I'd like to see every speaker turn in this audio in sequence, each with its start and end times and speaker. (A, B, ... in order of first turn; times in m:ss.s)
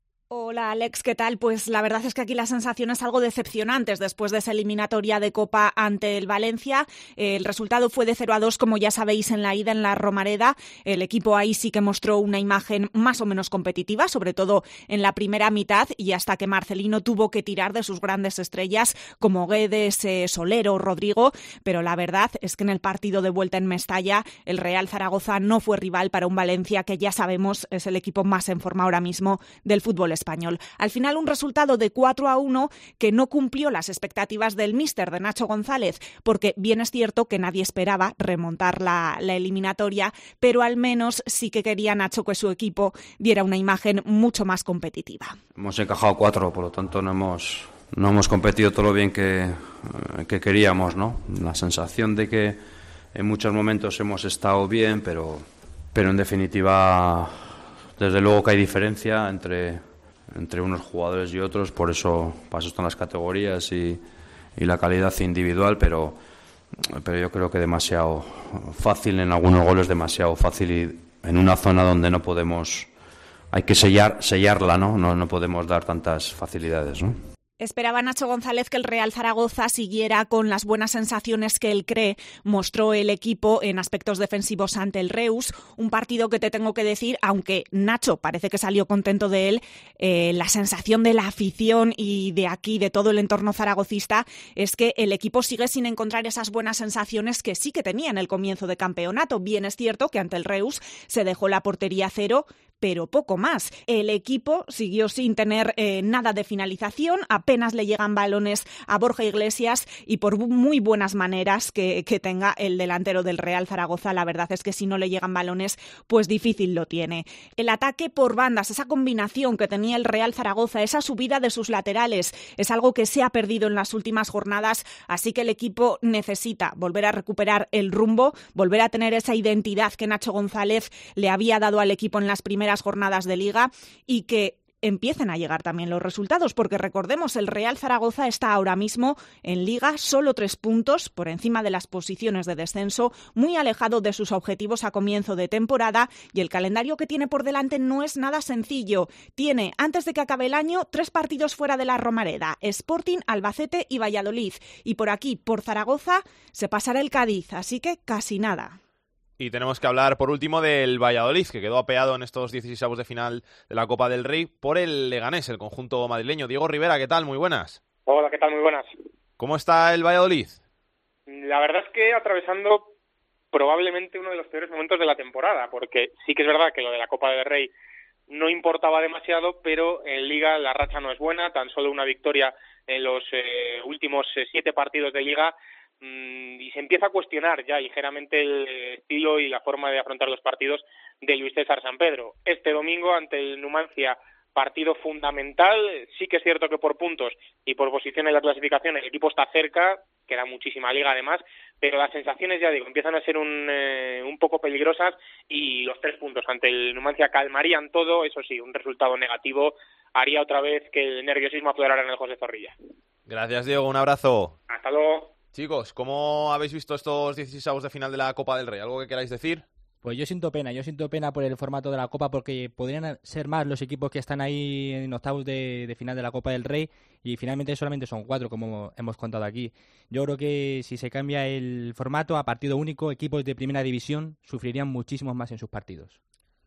0:00.3-0:45.4 A
0:45.6-0:52.6 B
0:53.1-1:04.0 B
1:04.6-1:06.2 B
1:06.7-1:12.9 B
1:13.5-1:17.2 B
1:17.6-2:38.8 A
2:39.4-2:47.8 C
2:48.1-2:48.9 D
2:49.4-2:50.6 C
2:51.3-2:52.9 D
2:53.5-2:57.7 D
2:58.3-3:32.8 D
3:33.3-3:34.6 C
3:34.7-3:35.3 D
3:35.5-3:39.6 C
3:40.0-3:56.2 E